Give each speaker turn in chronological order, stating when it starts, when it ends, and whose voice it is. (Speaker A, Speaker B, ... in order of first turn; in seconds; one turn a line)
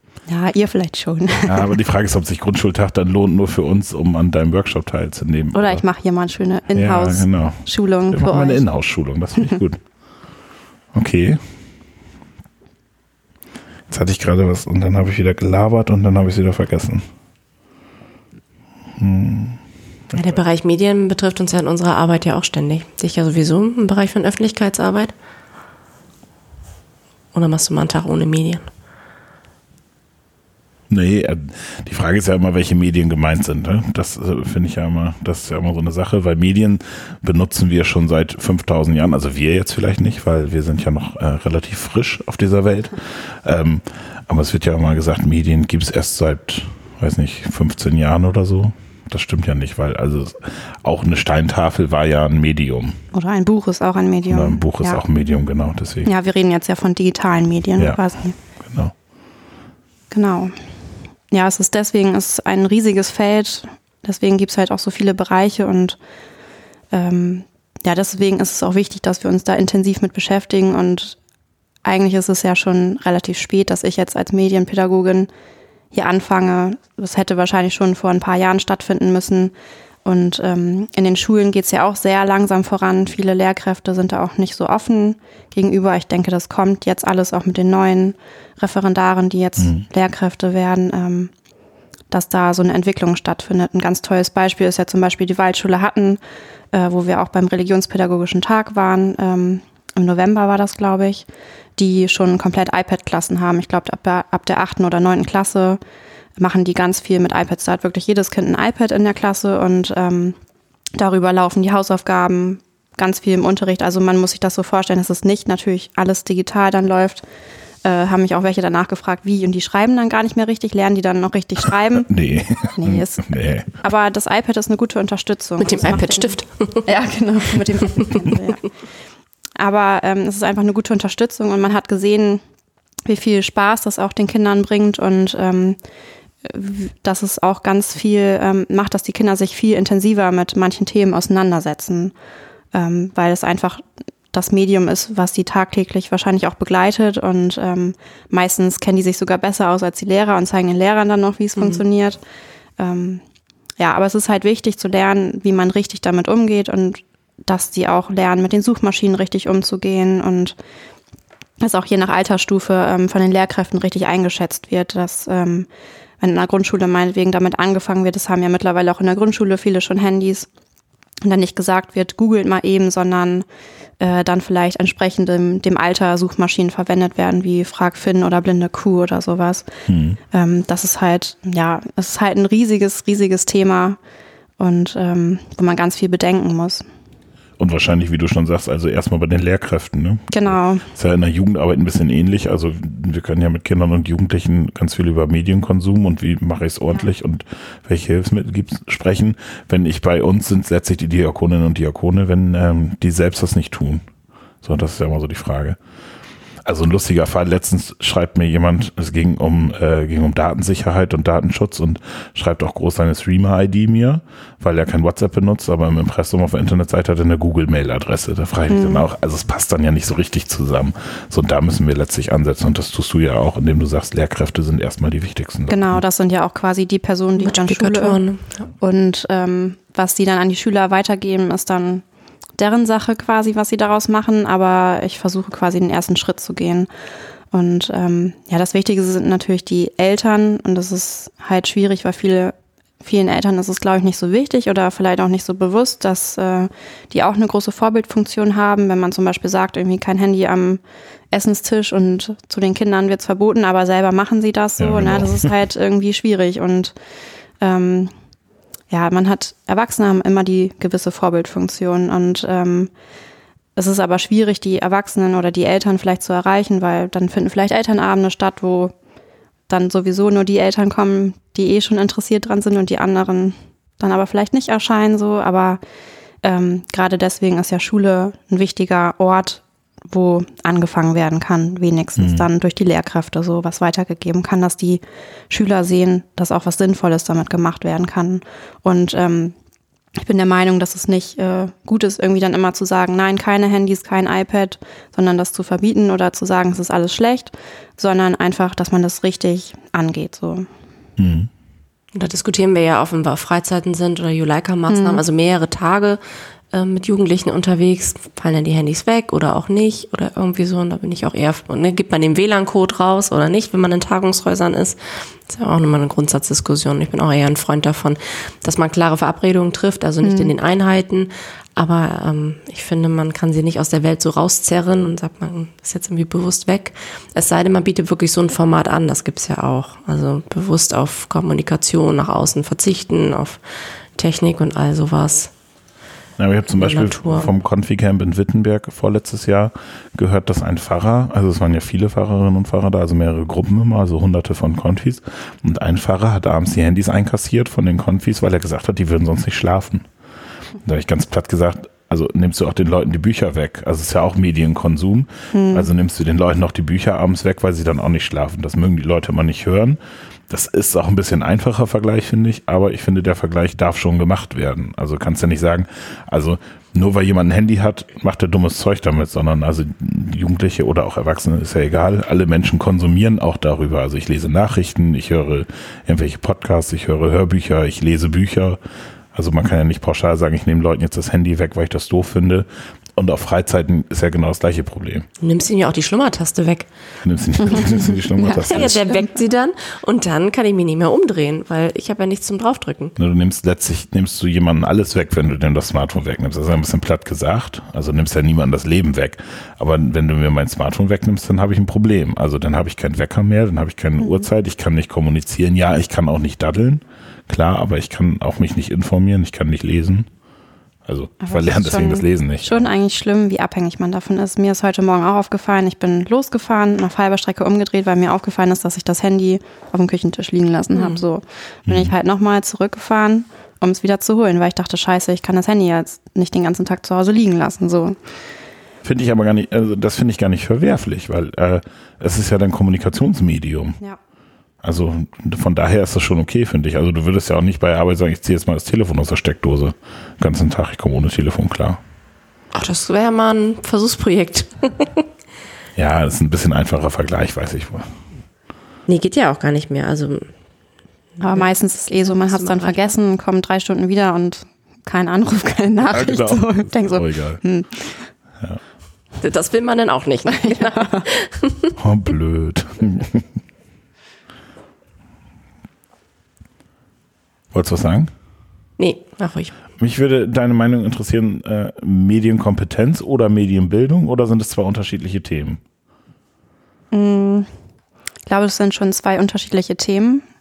Speaker A: 0.3-1.7
Speaker B: 1.5-5.8
Speaker A: 5.5-8.7
Speaker B: 6.8-9.8
Speaker B: 10.9-11.4
Speaker B: 13.9-17.1
Speaker B: 19.0-20.4
Speaker C: 20.2-25.1
Speaker C: 27.3-28.7
Speaker B: 30.9-53.0
Speaker A: 53.1-55.0
Speaker B: 54.3-56.1
Speaker A: 56.0-58.4
Speaker B: 58.6-58.9
Speaker A: 60.1-60.5
Speaker A: 61.3-66.0
Speaker A: 66.9-71.2
Speaker A: 71.8-75.3
Speaker A: 75.9-79.5
Speaker A: 80.0-91.3
Speaker B: 89.6-89.8
Speaker A: 92.1-96.2
Speaker A: 96.7-101.3
Speaker A: 101.8-105.8
Speaker A: 106.4-110.4
Speaker A: 111.0-117.2
Speaker A: 117.8-122.1
Speaker B: 122.0-123.7
Speaker A: 122.7-128.7
Speaker C: 125.6-126.9
Speaker A: 129.6-132.4
Speaker A: 133.1-135.8
Speaker A: 136.4-142.1
Speaker A: 142.7-152.2
Speaker C: 151.6-151.8
Speaker A: 152.8-153.2
Speaker A: 153.8-160.6
Speaker A: 161.6-165.7
Speaker A: 166.2-170.5
Speaker A: 171.2-173.5
Speaker A: 174.0-179.7
Speaker B: 179.9-180.2
Speaker A: 180.3-184.0
Speaker A: 184.6-186.8
Speaker B: 187.6-204.0
Speaker A: 190.3-190.9
Speaker B: 204.6-205.8
Speaker B: 206.7-226.0
Speaker A: 218.7-219.1
Speaker A: 225.7-228.2
Speaker C: 227.4-228.4
Speaker A: 228.8-232.0
Speaker A: 232.6-236.9
Speaker A: 237.5-250.8
Speaker A: 251.3-256.9
Speaker B: 254.8-255.5
Speaker A: 257.6-258.1
Speaker A: 258.9-262.9
Speaker A: 263.8-268.9
Speaker A: 269.7-275.8
Speaker A: 276.4-289.6
Speaker B: 282.2-282.5
Speaker A: 290.2-300.7
Speaker B: 301.2-301.5
Speaker C: 302.1-306.2
Speaker A: 304.9-305.2
Speaker C: 306.7-333.6
Speaker A: 320.2-320.5
Speaker C: 334.2-335.5
Speaker B: 336.4-350.1
Speaker C: 336.7-337.5
Speaker B: 350.8-378.8
Speaker A: 355.5-355.9
Speaker B: 379.3-385.3
Speaker C: 385.4-386.9
Speaker B: 387.2-389.1
Speaker A: 387.7-389.3
Speaker C: 388.6-393.2
Speaker B: 393.2-410.3
Speaker B: 411.1-412.9
Speaker A: 411.4-428.2
Speaker C: 420.9-421.2
Speaker B: 421.9-422.1
Speaker B: 429.0-434.0
Speaker B: 434.8-442.0
Speaker C: 442.7-445.2
Speaker B: 446.0-448.1
Speaker C: 449.1-450.5
Speaker A: 451.4-458.2
Speaker C: 451.5-453.1
Speaker B: 456.1-457.6
Speaker C: 459.4-462.0
Speaker A: 460.6-461.2
Speaker B: 462.0-463.5
Speaker B: 467.7-468.3
Speaker C: 469.0-469.7
Speaker B: 470.0-475.8
Speaker A: 477.1-477.7
Speaker A: 478.5-480.4